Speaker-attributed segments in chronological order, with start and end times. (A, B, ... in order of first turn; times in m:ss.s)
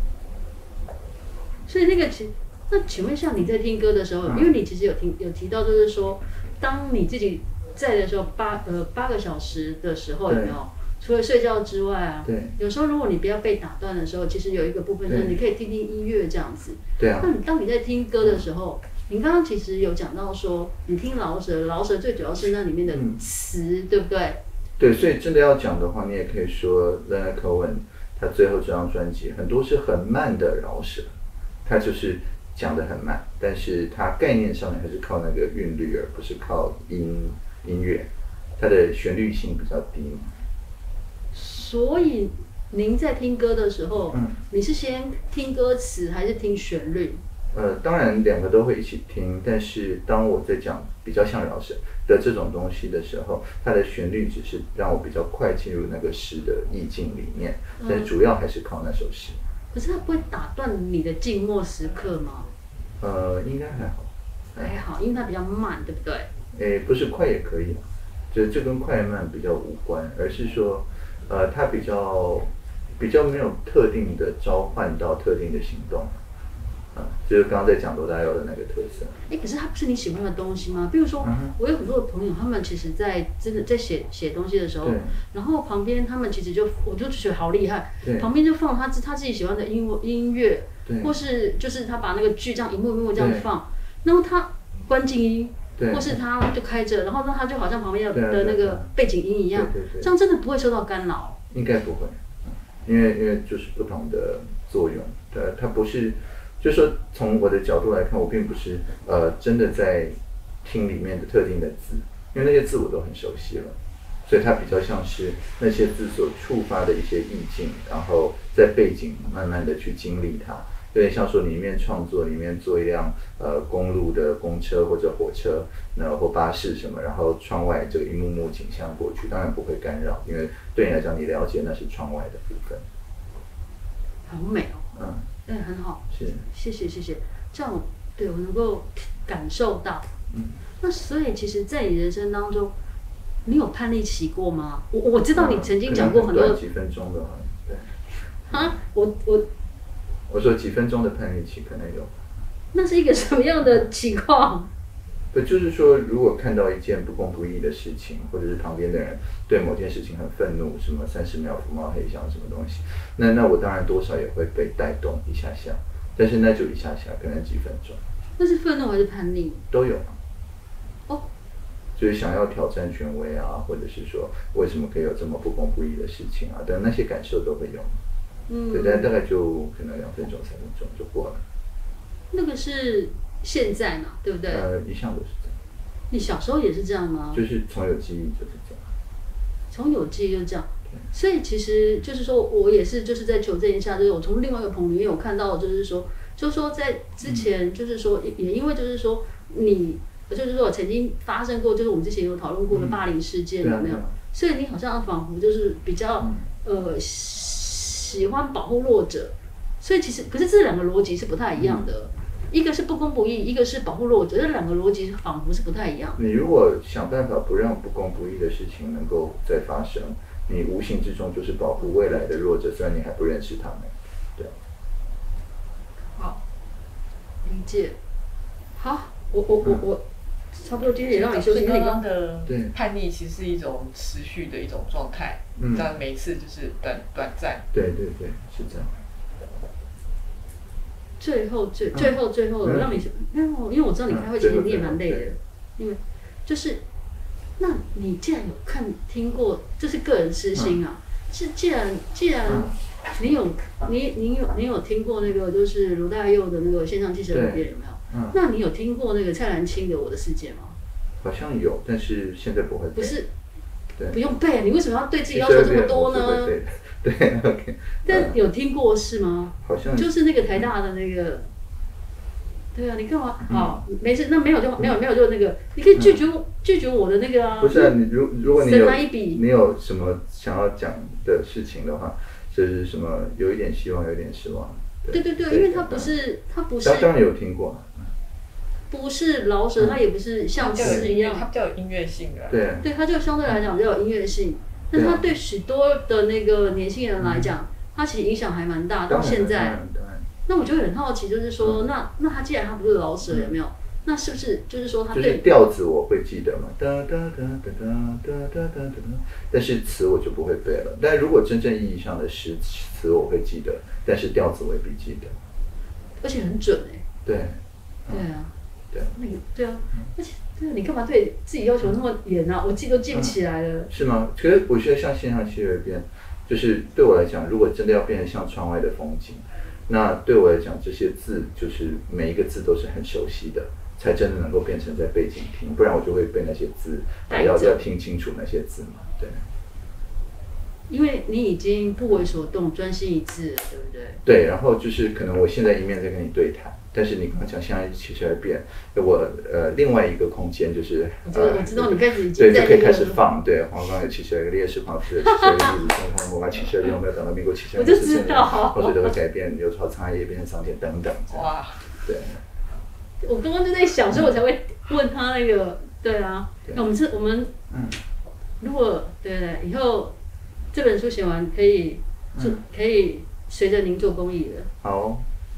0:01.7-0:24.4 A
0:04.3-0:04.5 B
0:10.3-0:10.6 B
0:12.2-0:12.6 B
0:15.1-0:15.4 B
0:17.0-0:17.3 B
0:22.9-0:23.2 B
0:24.8-0:31.1 B
0:31.6-0:40.4 B
0:41.3-0:47.2 A
0:44.1-0:44.4 B
0:47.5-0:59.4 B
0:57.8-0:58.1 A
0:59.7-1:02.5 A
1:03.0-1:04.7 B
1:04.6-1:06.3 A
1:06.5-1:16.2 B
1:16.9-1:19.2 B
1:19.3-1:41.4 A
1:21.2-1:21.5 B
1:24.8-1:25.2 B
1:28.0-1:28.3 B
1:30.9-1:31.1 B
1:33.2-1:33.5 B
1:35.8-1:36.2 B
1:38.1-1:38.9 B
1:39.5-1:40.1 B
1:41.5-2:12.8 B
2:14.3-2:14.9 A
2:14.9-2:15.3 B
2:15.5-2:20.1 A
2:16.1-2:16.4 B
2:20.3-2:20.6 B
2:20.8-2:22.7 A
2:23.4-2:26.6 A
2:25.4-2:28.0 B
2:28.5-2:29.5 A
2:30.3-2:32.2 B
2:32.7-2:34.7 A
2:35.3-2:48.0 B
2:48.4-2:49.6 A
2:49.7-2:50.2 B
2:52.0-2:58.0 B
2:58.5-2:59.1 A
2:58.7-3:01.4 B
3:02.3-3:04.6 A
3:04.5-3:05.5 B
3:06.1-3:07.4 A
3:07.3-3:08.9 B
3:09.7-3:36.2 A
3:22.7-3:23.0 B
3:23.6-3:24.2 B
3:26.2-3:26.5 B
3:31.6-3:31.9 B
3:36.2-3:44.6 B
3:41.8-3:42.4 A
3:46.2-3:46.4 A
3:47.4-3:48.0 A
3:48.8-3:50.0 A
3:50.5-3:52.0 A
3:51.0-3:57.6 C
3:52.5-3:52.7 B
3:55.6-3:56.0 B
3:57.7-3:59.0 B
4:01.2-4:06.8 A
4:01.9-4:03.0 B
4:04.1-4:05.3 B
4:07.6-4:20.8 A
4:12.5-4:12.8 B
4:17.3-4:18.4 B
4:21.2-4:23.2 B
4:23.0-4:23.3 A
4:24.1-4:26.6 A
4:25.3-4:28.4 B
4:28.0-4:31.5 A
4:29.6-4:30.7 B
4:32.7-4:38.0 A
4:33.5-4:33.8 B
4:36.0-4:36.2 B
4:37.6-4:46.1 B
4:38.5-4:39.4 A
4:45.1-4:47.1 A
4:46.8-4:48.1 B
4:48.9-4:51.5 A
4:50.6-4:52.6 C
4:50.8-4:51.1 B
4:52.5-4:52.9 B
4:52.8-4:59.8 A
4:54.9-4:55.2 B
4:57.2-4:57.6 B
4:59.1-5:00.3 B
5:00.5-5:05.4 A
5:03.3-5:03.6 B
5:05.1-5:15.4 B
5:16.2-5:17.0 A
5:17.2-5:18.3 B
5:18.1-5:18.5 A
5:19.2-5:23.9 A
5:23.1-5:23.4 B
5:23.9-5:39.5 B
5:37.3-5:37.8 A
5:40.9-5:44.2 A
5:44.2-6:02.4 B
5:51.2-5:53.2 A
5:55.2-5:55.7 A
5:57.7-5:59.2 A
6:01.3-6:01.9 C
6:03.2-6:07.5 A
6:07.7-6:08.0 B
6:08.6-6:10.2 A
6:10.7-6:14.7 A
6:12.4-6:12.6 B
6:14.8-6:15.3 B